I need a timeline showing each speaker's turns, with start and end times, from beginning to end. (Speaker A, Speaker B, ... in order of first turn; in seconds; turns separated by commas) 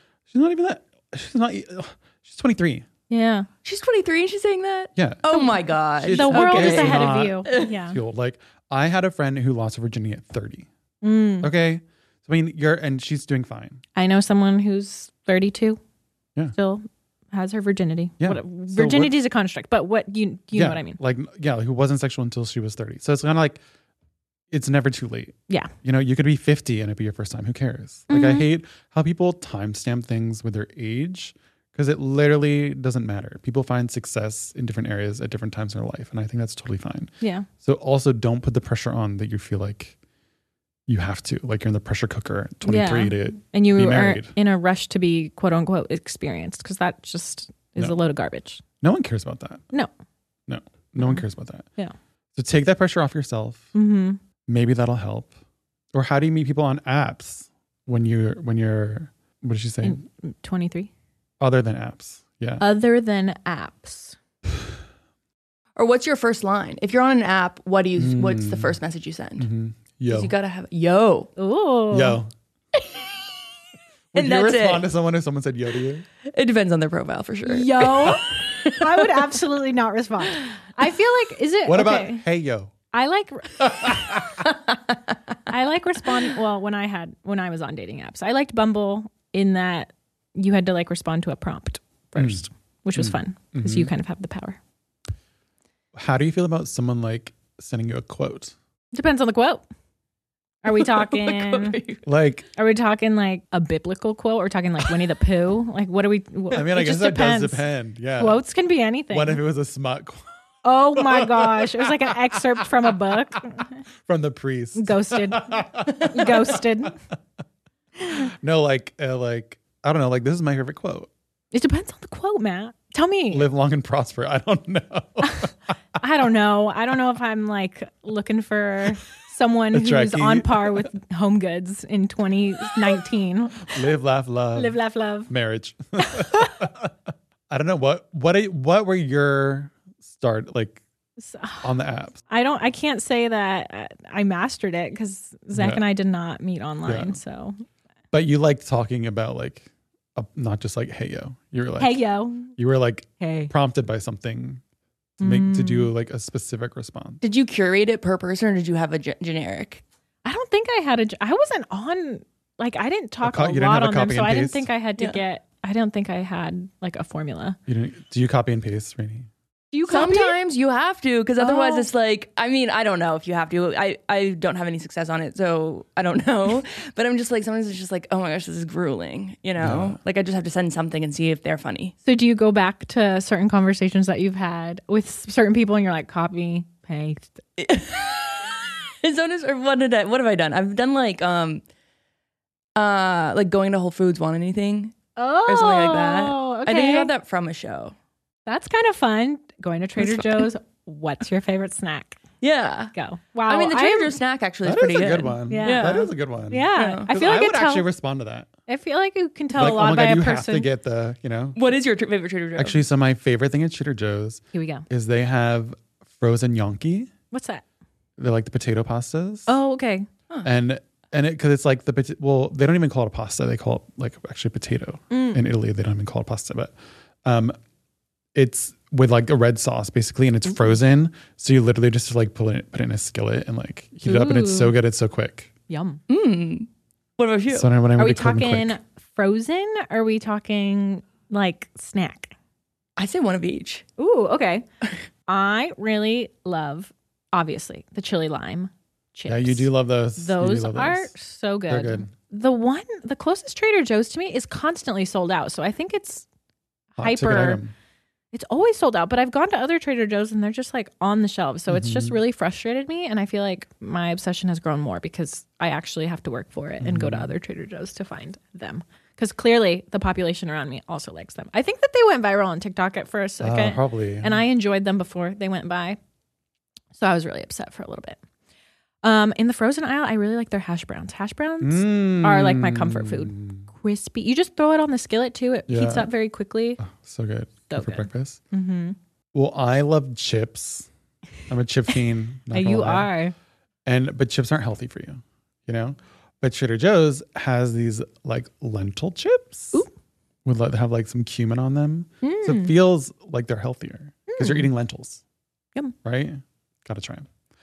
Speaker A: 0.3-2.9, Speaker B: 3.1-3.5, Speaker C: 3.6-7.7, Speaker A: 5.0-5.3, Speaker A: 6.0-10.7, Speaker B: 6.1-8.0, Speaker B: 11.0-11.5, Speaker A: 11.4-13.8, Speaker B: 14.0-15.8, Speaker B: 16.6-21.0, Speaker A: 18.2-19.2, Speaker A: 20.5-23.6, Speaker A: 24.5-40.0, Speaker B: 28.1-28.5, Speaker B: 37.2-37.5, Speaker A: 40.9-44.3, Speaker B: 42.6-48.6, Speaker A: 48.8-49.6, Speaker A: 50.5-51.7, Speaker A: 52.4-53.7, Speaker B: 53.7-54.2, Speaker A: 54.5-55.3, Speaker A: 55.9-60.0, Speaker B: 59.8-60.9, Speaker A: 61.4-62.6, Speaker B: 62.6-64.2, Speaker C: 65.8-69.5, Speaker A: 68.0-68.8, Speaker A: 69.4-70.3, Speaker C: 70.1-71.3, Speaker B: 71.4-72.2, Speaker A: 71.9-72.3, Speaker A: 74.1-76.0, Speaker C: 74.1-74.8, Speaker C: 76.3-79.0, Speaker B: 77.5-82.2, Speaker A: 81.7-82.7, Speaker B: 82.9-84.2, Speaker A: 83.6-84.4, Speaker B: 85.5-94.6, Speaker A: 92.2-92.4, Speaker A: 93.0-93.9, Speaker A: 96.0-98.5, Speaker B: 98.9-99.6, Speaker B: 100.6-101.8, Speaker C: 100.7-102.0, Speaker A: 102.0-102.5, Speaker B: 102.6-107.6, Speaker A: 106.5-108.4, Speaker B: 108.2-109.4, Speaker A: 109.1-110.3, Speaker B: 110.6-113.8, Speaker A: 111.0-113.1, Speaker A: 114.0-116.9, Speaker B: 114.8-117.0, Speaker A: 118.1-121.1, Speaker B: 121.5-123.5, Speaker A: 123.3-125.5, Speaker B: 126.0-133.7, Speaker A: 129.7-130.9, Speaker A: 133.6-136.9, Speaker B: 134.6-135.3, Speaker B: 136.0-136.5, Speaker A: 137.5-140.8, Speaker B: 141.2-141.7, Speaker A: 141.6-142.2, Speaker B: 142.3-147.6, Speaker A: 145.5-145.8, Speaker A: 146.9-147.2, Speaker A: 148.1-154.6, Speaker B: 151.8-152.5, Speaker B: 153.2-153.5, Speaker A: 155.2-157.2, Speaker B: 155.2-155.9, Speaker C: 157.2-159.8, Speaker B: 160.2-167.6, Speaker A: 163.2-164.7, Speaker A: 167.7-169.3, Speaker B: 169.7-170.4, Speaker C: 169.9-181.9, Speaker B: 171.4-171.9, Speaker A: 179.6-180.0, Speaker B: 182.1-187.4, Speaker C: 187.6-191.6, Speaker C: 192.8-197.9, Speaker B: 195.2-197.1, Speaker B: 198.5-202.2, Speaker C: 200.0-200.5, Speaker C: 202.4-202.9, Speaker B: 202.9-204.2, Speaker C: 203.5-206.1, Speaker A: 204.6-208.5, Speaker B: 205.4-207.9, Speaker C: 206.8-207.1, Speaker B: 208.7-210.7, Speaker A: 209.5-211.6, Speaker C: 211.6-212.8, Speaker A: 212.6-217.1, Speaker B: 214.5-214.9, Speaker B: 217.3-217.6, Speaker A: 218.2-219.5, Speaker B: 219.5-220.1, Speaker A: 220.4-227.6, Speaker B: 225.1-225.4, Speaker A: 228.3-235.5, Speaker B: 234.1-234.8, Speaker B: 235.7-236.0, Speaker C: 236.1-237.7, Speaker A: 237.5-238.8, Speaker B: 238.0-242.3, Speaker C: 243.0-243.8, Speaker B: 244.0-244.7, Speaker B: 245.3-256.2, Speaker A: 249.3-251.1, Speaker A: 251.7-252.1, Speaker B: 257.0-257.6, Speaker A: 257.0-257.7, Speaker B: 258.3-276.0, Speaker A: 261.7-262.2, Speaker A: 266.8-267.3, Speaker A: 273.4-274.4, Speaker B: 277.0-278.2, Speaker B: 279.0-286.8, Speaker A: 281.6-283.7, Speaker A: 285.7-286.1, Speaker A: 286.8-288.4, Speaker B: 287.7-289.0, Speaker A: 289.3-290.9, Speaker A: 291.5-293.1, Speaker B: 292.5-293.3, Speaker A: 293.9-299.9, Speaker A: 300.4-305.2, Speaker B: 302.2-302.8, Speaker B: 304.3-304.7, Speaker A: 306.0-307.3